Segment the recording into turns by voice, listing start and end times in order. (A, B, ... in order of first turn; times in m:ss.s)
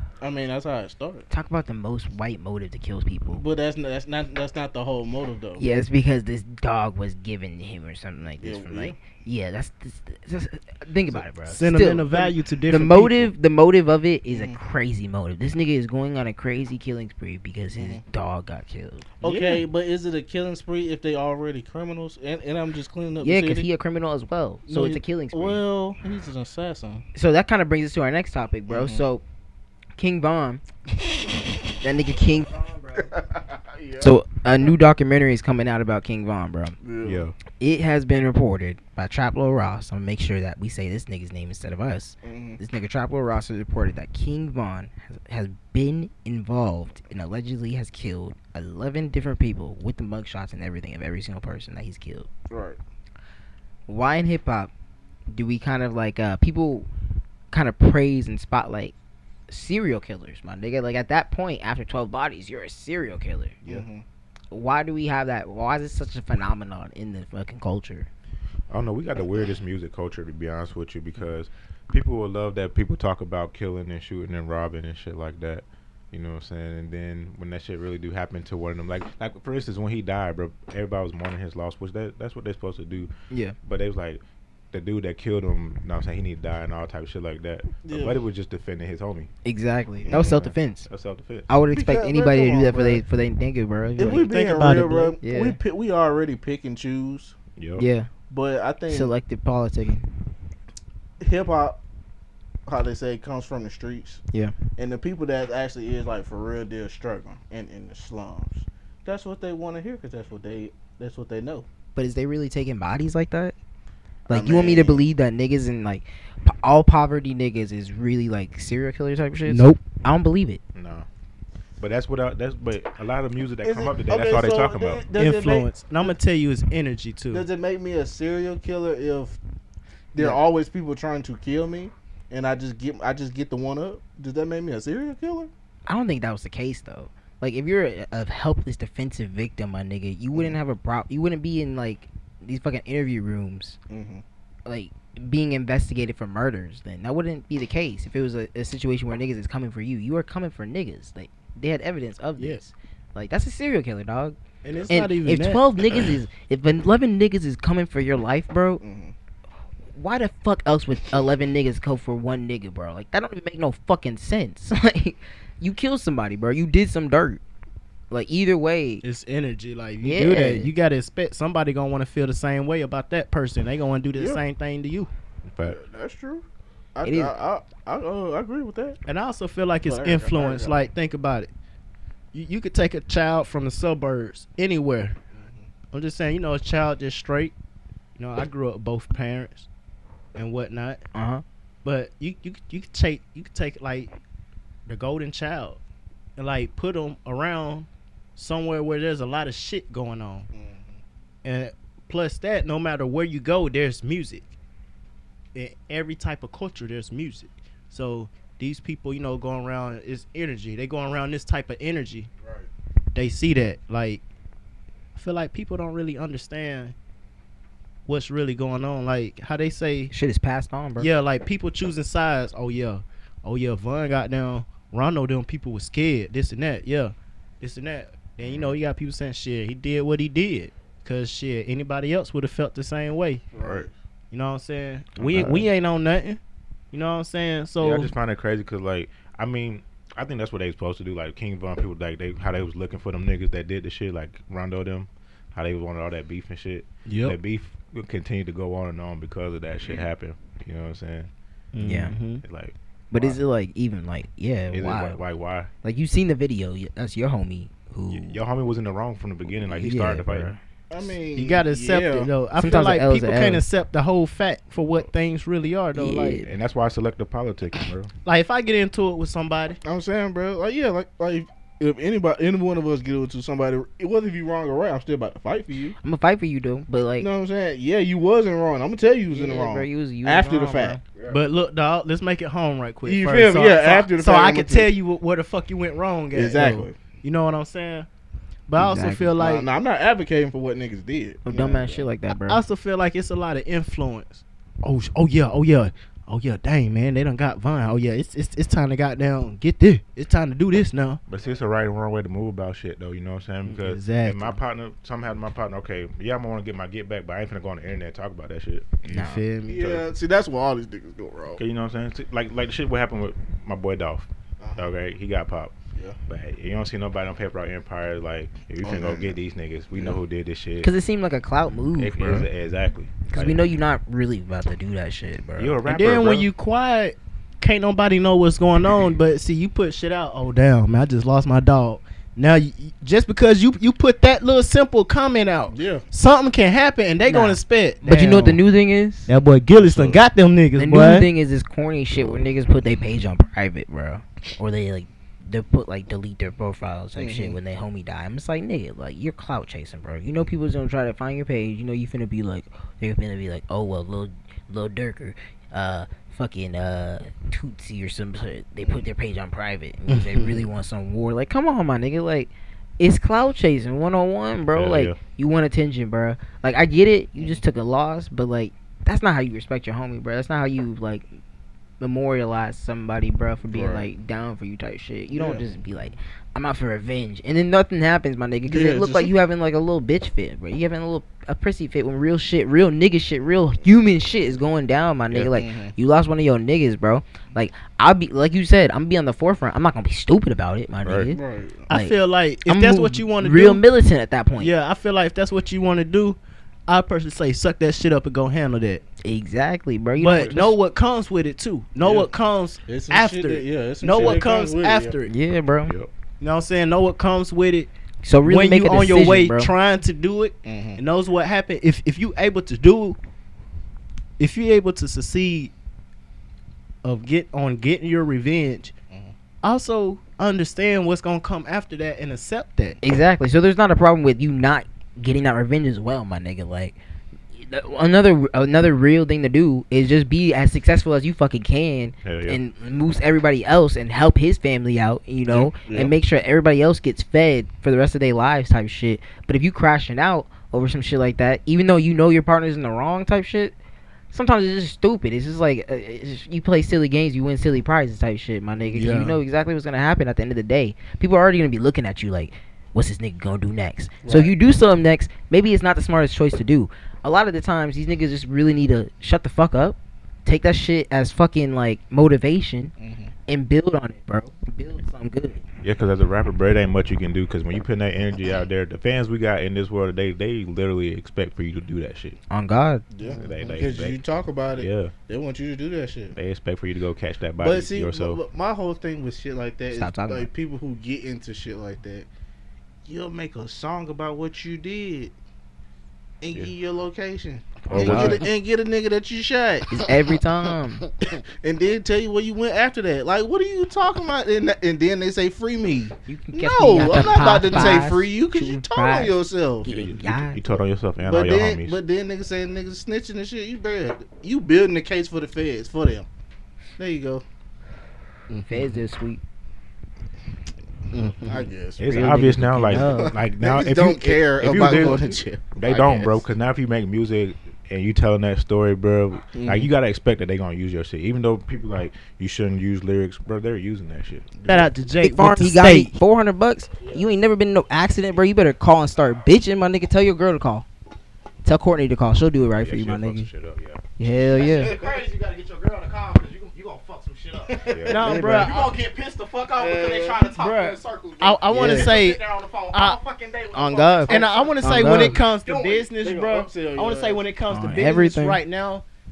0:00.2-0:01.3 A
0:01.3-0:03.4 B
0:03.3-0:05.6 A
0:05.6-0:12.2 B
0:08.4-0:09.0 A
0:11.5-0:13.3 C
0:12.7-0:19.6 B
0:14.3-0:14.6 A
0:17.7-0:18.0 A
0:19.2-0:23.7 A
0:23.2-0:25.6 B
0:24.7-0:27.0 A
0:27.1-0:29.2 B
0:28.7-0:29.1 A
0:30.0-0:30.6 B
0:31.8-0:32.5 B
0:32.4-0:33.1 D
0:32.9-0:34.7 A
0:34.0-0:36.8 B
0:36.8-0:37.2 A
0:37.0-0:37.3 E
0:37.6-0:52.3 B
0:42.2-0:42.6 A
0:52.5-0:52.8 A
0:53.9-0:54.7 B
0:55.3-0:56.9 B
0:57.5-0:58.9 B
0:59.5-1:03.8 B
1:03.6-1:04.0 A
1:04.5-1:08.1 B
1:08.7-1:23.1 E
1:23.3-1:23.6 B
1:23.6-1:29.3 E
1:27.8-1:28.2 A
1:29.4-1:30.9 B
1:30.0-1:30.4 A
1:30.1-1:31.5 E
1:31.5-1:34.3 B
1:31.7-1:33.0 A
1:34.0-1:37.3 A
1:34.0-1:35.2 C
1:35.2-1:35.6 B
1:37.6-1:37.9 E
1:37.8-1:38.1 B
1:38.3-1:39.1 A
1:38.9-1:40.0 B
1:41.2-1:41.8 A
1:42.6-1:44.2 A
1:44.8-1:51.6 A
1:52.0-1:53.5 B
1:54.3-2:00.6 B
1:54.3-1:55.0 A
1:59.4-1:59.8 C
2:00.7-2:01.1 E
2:01.8-2:05.0 E
2:03.6-2:06.2 A
2:05.1-2:07.5 C
2:07.3-2:09.4 A
2:10.1-2:15.5 A
2:15.9-2:23.8 B
2:20.3-2:20.6 A
2:23.9-2:24.2 A
2:24.6-2:34.4 B
2:34.6-2:35.6 C
2:34.7-2:35.0 A
2:34.9-2:38.8 B
2:38.8-2:39.1 A
2:39.9-2:47.4 B
2:48.1-2:49.0 B
2:49.0-2:55.1 C
2:50.0-2:50.7 B
2:54.2-2:54.4 A
2:55.5-2:55.8 E
2:55.6-2:59.0 A
2:57.0-2:57.3 B
2:59.0-3:01.5 C
2:59.8-3:00.8 A
3:02.3-3:05.2 C
3:05.3-3:05.7 A
3:05.9-3:07.5 C
3:08.2-3:09.7 C
3:10.3-3:11.0 C
3:11.1-3:11.4 B
3:11.8-3:14.1 C
3:14.8-3:15.8 C
3:16.4-3:20.5 C
3:20.5-3:21.0 A
3:21.4-3:24.5 C
3:25.5-3:32.3 C
3:33.1-3:34.2 C
3:35.1-3:36.9 C
3:38.0-3:40.1 C
3:40.1-3:41.1 B
3:41.0-3:53.4 C
3:48.4-3:48.8 E
3:53.5-3:53.9 A
3:53.6-3:53.9 E
3:54.3-3:56.4 C
3:55.2-3:55.7 E
3:56.9-3:58.1 C
3:57.8-4:11.3 E
4:07.1-4:07.4 C
4:11.7-4:12.4 C
4:11.8-4:12.2 B
4:12.4-4:13.3 E
4:13.1-4:15.2 B
4:14.7-4:15.7 E
4:15.8-4:18.4 B
4:18.1-4:20.5 E
4:19.6-4:20.6 B
4:20.9-4:22.4 A
4:21.3-4:26.4 C
4:22.6-4:23.6 B
4:25.9-4:26.5 B
4:26.4-4:28.1 E
4:28.2-4:29.8 C
4:29.8-4:36.0 A
4:36.0-4:37.3 B
4:37.2-4:41.0 A
4:39.3-4:41.0 B
4:41.3-4:48.1 C
4:43.0-4:44.9 A
4:46.3-4:47.0 A
4:48.7-4:49.7 C
4:48.8-4:49.3 B
4:49.4-4:52.1 A
4:51.4-4:52.6 B
4:52.3-5:01.2 C
5:01.3-5:09.0 E
5:03.6-5:04.6 C
5:09.0-5:09.4 B
5:09.1-5:10.0 C
5:09.7-5:11.6 A
5:09.8-5:10.0 E
5:11.6-5:15.7 E
5:14.6-5:14.9 A
5:16.3-5:20.9 E
5:18.8-5:19.4 A
5:19.9-5:20.2 A
5:20.8-5:22.5 B
5:22.0-5:23.6 E
5:23.3-5:25.8 B
5:25.6-5:26.5 E
5:25.8-5:38.6 C
5:35.7-5:36.0 A
5:37.2-5:39.3 B
5:39.3-5:41.3 C
5:39.8-5:40.2 A
5:40.7-6:11.3 B
5:47.2-5:47.6 A
6:00.1-6:00.6 C
6:04.7-6:05.2 E
6:07.4-6:07.6 A
6:12.0-6:31.4 B
6:13.7-6:14.1 A
6:15.3-6:15.7 A
6:18.6-6:19.3 A
6:25.5-6:25.9 A
6:31.0-6:31.3 E
6:31.3-6:31.9 A
6:31.9-6:33.8 C
6:31.9-6:34.7 B
6:34.6-6:39.0 C
6:39.2-6:40.8 B
6:40.2-6:45.3 C
6:42.0-6:42.3 A
6:42.9-6:45.2 A
6:45.2-6:45.9 B
6:45.9-6:46.1 E
6:46.4-6:47.9 C
6:48.2-6:49.7 B
6:48.4-6:53.2 C
6:50.6-6:51.0 A
6:54.4-6:55.7 C
6:57.0-6:58.9 C
6:59.6-7:03.0 C
7:03.0-7:07.0 B
7:07.5-7:23.7 B
7:12.2-7:12.6 E
7:15.5-7:16.1 A
7:24.3-7:42.9 B
7:28.9-7:29.4 C
7:34.2-7:34.5 A
7:43.0-7:43.3 A
7:43.5-7:45.6 B
7:45.8-7:52.4 E
7:52.5-7:53.0 B
7:53.1-7:56.4 A
7:53.3-7:55.1 E
7:56.3-7:58.4 E
7:57.6-8:02.3 A
7:59.9-8:00.5 B
8:03.0-8:05.3 A
8:06.4-8:10.0 A
8:07.9-8:08.4 E
8:07.9-8:08.4 B
8:09.9-8:11.0 B
8:11.6-8:20.0 A
8:16.3-8:20.6 B
8:17.7-8:18.0 C
8:19.8-8:22.0 E
8:21.2-8:26.3 A
8:27.0-8:27.4 A
8:28.5-8:29.0 C
8:28.7-8:29.4 B
8:31.1-8:31.7 C
8:31.4-8:32.4 A
8:32.0-8:44.5 E
8:32.1-8:33.3 B
8:32.9-8:36.5 A
8:39.5-8:39.9 A
8:44.6-8:44.9 A
8:44.7-8:46.2 C
8:45.2-8:50.8 B
8:51.6-8:53.5 B
8:52.8-8:54.0 E
8:54.2-8:55.0 B
8:54.5-9:06.2 D
8:54.5-8:55.2 A
8:57.7-8:58.8 A
8:57.9-8:58.4 E
8:58.1-8:58.9 C
8:59.8-9:00.5 A
9:00.5-9:03.2 C
9:01.7-9:02.1 A
9:03.8-9:05.4 B
9:03.9-9:09.0 C
9:06.2-9:07.4 A
9:07.7-9:08.6 B